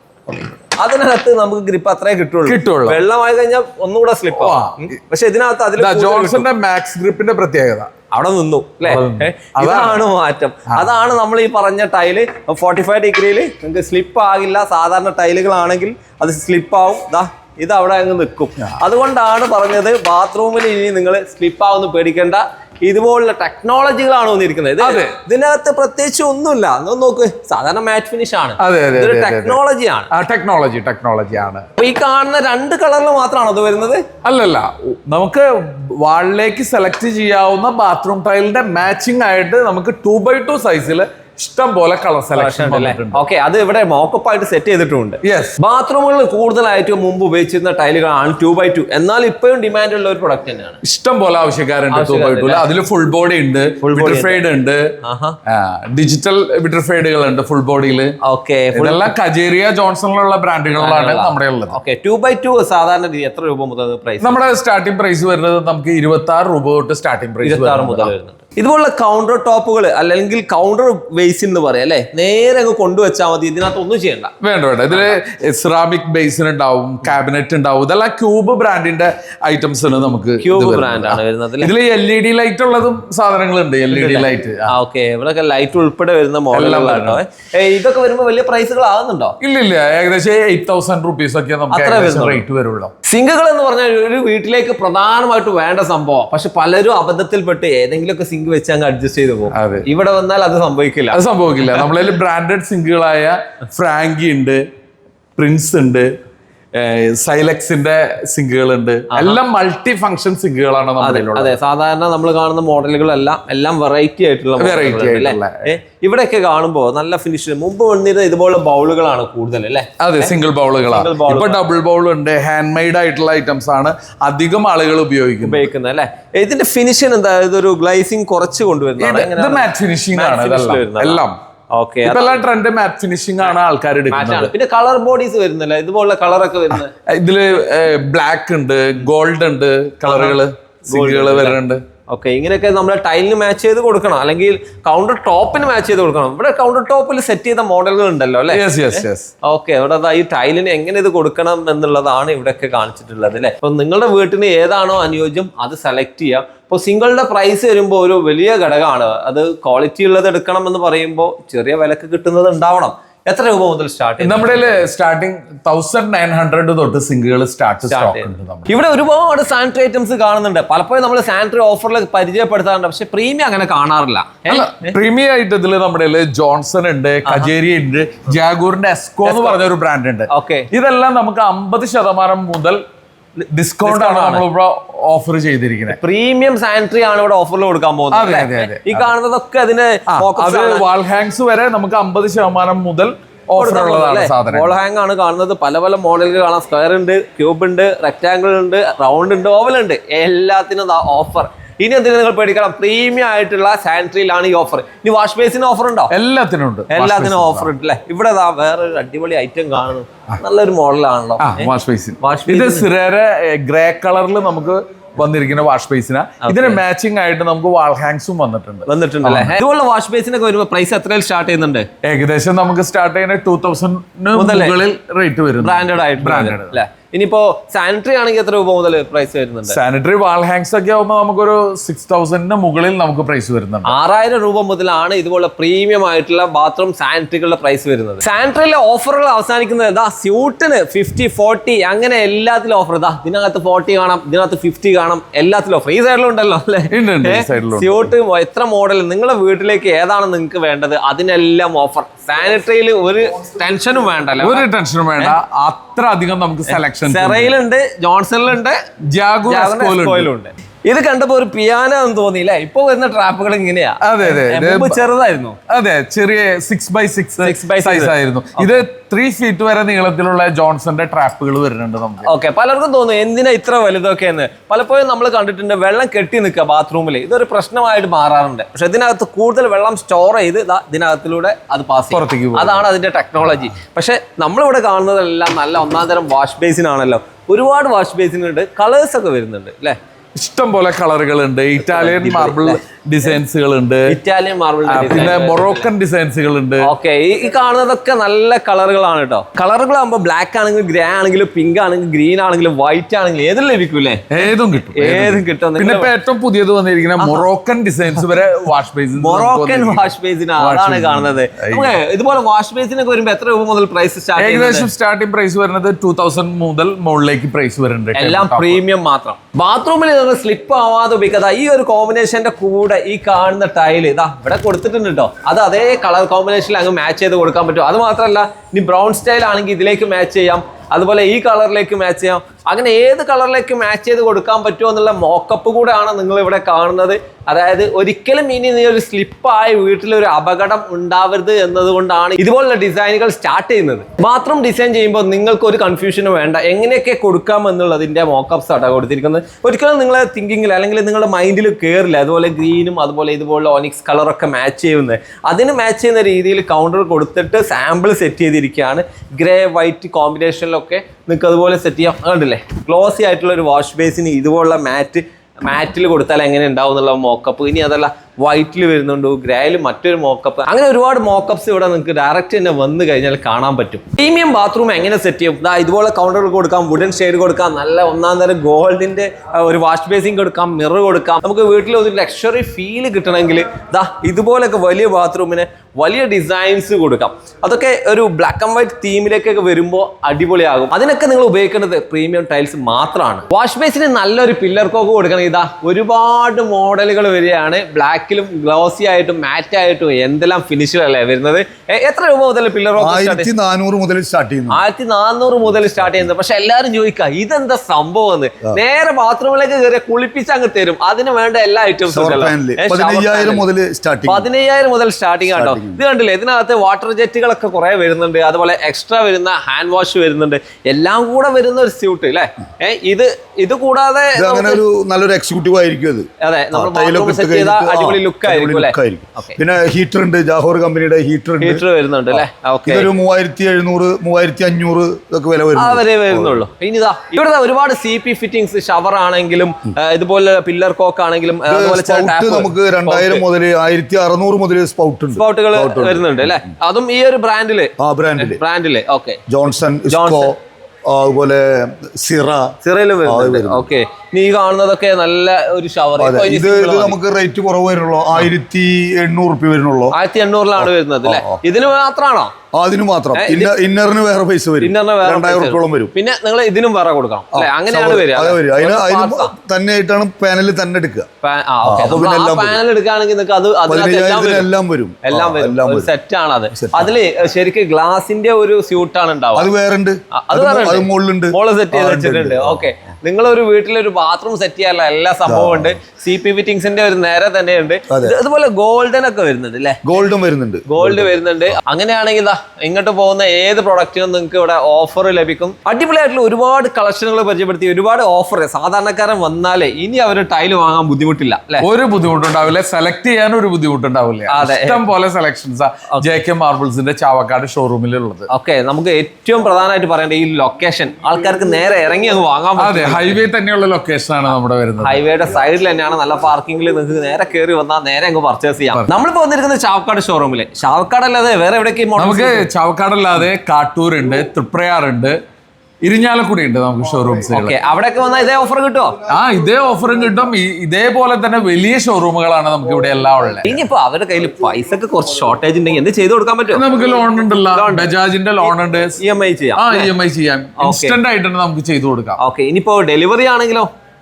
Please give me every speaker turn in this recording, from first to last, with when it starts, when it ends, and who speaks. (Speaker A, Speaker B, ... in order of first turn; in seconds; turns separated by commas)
Speaker A: 0.3-6.5, Speaker B: 2.5-3.0, Speaker B: 4.3-4.9, Speaker B: 5.8-7.9, Speaker A: 8.1-30.1, Speaker B: 8.8-10.0, Speaker B: 24.8-25.1, Speaker B: 28.6-31.6, Speaker A: 31.8-34.0, Speaker B: 34.2-43.2, Speaker A: 42.4-50.8, Speaker B: 45.2-45.6, Speaker B: 50.8-54.8, Speaker A: 51.9-52.6, Speaker A: 53.8-54.4, Speaker A: 55.0-55.4, Speaker B: 55.5-58.1, Speaker A: 58.2-59.1, Speaker B: 58.7-61.8, Speaker A: 60.8-64.5, Speaker B: 64.2-68.1, Speaker A: 67.4-74.3, Speaker B: 74.4-84.7, Speaker A: 80.4-81.7, Speaker A: 83.9-89.4, Speaker B: 86.5-87.2, Speaker B: 89.4-92.9, Speaker A: 91.7-92.4, Speaker A: 93.0-101.9, Speaker B: 99.5-99.8, Speaker B: 101.1-104.6, Speaker B: 105.3-106.1, Speaker B: 106.7-111.5, Speaker A: 109.1-109.4, Speaker A: 111.0-121.6, Speaker B: 114.6-115.8, Speaker B: 120.0-125.7, Speaker A: 125.4-132.4, Speaker B: 129.0-131.4, Speaker B: 132.0-134.5, Speaker A: 134.1-136.9, Speaker B: 136.7-141.8, Speaker A: 140.0-164.8, Speaker B: 148.5-149.3, Speaker B: 164.2-168.7, Speaker A: 167.9-174.9, Speaker B: 174.5-182.8, Speaker A: 177.2-177.5, Speaker A: 179.2-179.6, Speaker A: 180.3-180.7, Speaker B: 183.5-186.0, Speaker A: 183.8-184.4, Speaker A: 185.9-190.8, Speaker B: 188.1-189.1, Speaker B: 190.1-194.8, Speaker A: 193.6-206.1, Speaker B: 206.1-207.7, Speaker A: 206.9-212.8, Speaker B: 211.4-219.6, Speaker A: 216.4-216.8, Speaker A: 218.9-221.9, Speaker B: 222.0-226.8, Speaker A: 224.3-224.8, Speaker A: 225.6-229.8, Speaker B: 229.7-233.9, Speaker A: 233.8-255.3, Speaker B: 246.9-248.1, Speaker B: 254.4-257.5, Speaker A: 256.7-258.8, Speaker B: 259.1-260.3, Speaker A: 259.5-265.6, Speaker B: 264.0-265.0, Speaker B: 265.7-272.3, Speaker A: 267.4-268.8, Speaker A: 272.2-290.0, Speaker B: 282.1-282.9, Speaker B: 290.4-294.2, Speaker A: 291.8-292.8, Speaker A: 294.1-295.9, Speaker B: 294.9-296.9, Speaker A: 296.8-306.1, Speaker B: 304.3-312.0, Speaker A: 307.2-307.4, Speaker A: 309.1-314.9, Speaker B: 314.4-318.8, Speaker A: 318.1-403.5, Speaker C: 403.0-404.8, Speaker A: 404.7-413.6, Speaker C: 405.8-406.2, Speaker C: 412.1-414.5, Speaker A: 414.3-424.8, Speaker C: 415.5-416.0, Speaker C: 424.3-436.6, Speaker A: 426.4-429.6, Speaker A: 431.6-433.1, Speaker A: 435.8-443.4, Speaker C: 441.7-446.7, Speaker A: 445.3-449.4, Speaker C: 448.0-448.6, Speaker C: 449.5-452.7, Speaker A: 450.1-450.5, Speaker A: 452.8-457.2, Speaker C: 453.2-453.9, Speaker C: 456.2-460.1, Speaker A: 460.1-462.5, Speaker C: 460.8-461.6, Speaker C: 462.7-466.1, Speaker A: 463.3-463.7, Speaker A: 464.8-469.5, Speaker C: 467.5-471.3, Speaker A: 471.4-474.7, Speaker C: 471.8-472.8, Speaker C: 473.9-476.1, Speaker A: 475.2-479.7, Speaker C: 476.7-477.1, Speaker C: 479.5-482.9, Speaker A: 480.3-490.1, Speaker C: 485.5-485.9, Speaker C: 488.1-488.3, Speaker C: 490.0-491.3, Speaker A: 490.9-501.9, Speaker B: 501.8-508.5, Speaker A: 504.5-505.0, Speaker A: 506.1-506.4, Speaker A: 508.5-513.4, Speaker B: 512.8-515.2, Speaker A: 515.0-522.6, Speaker B: 522.1-525.4, Speaker B: 526.0-527.8, Speaker A: 527.5-529.2, Speaker B: 529.3-533.8, Speaker A: 533.6-536.8, Speaker B: 536.7-539.2, Speaker A: 537.7-538.1, Speaker A: 539.2-540.1, Speaker B: 539.8-542.4, Speaker A: 540.8-541.2, Speaker A: 542.4-543.9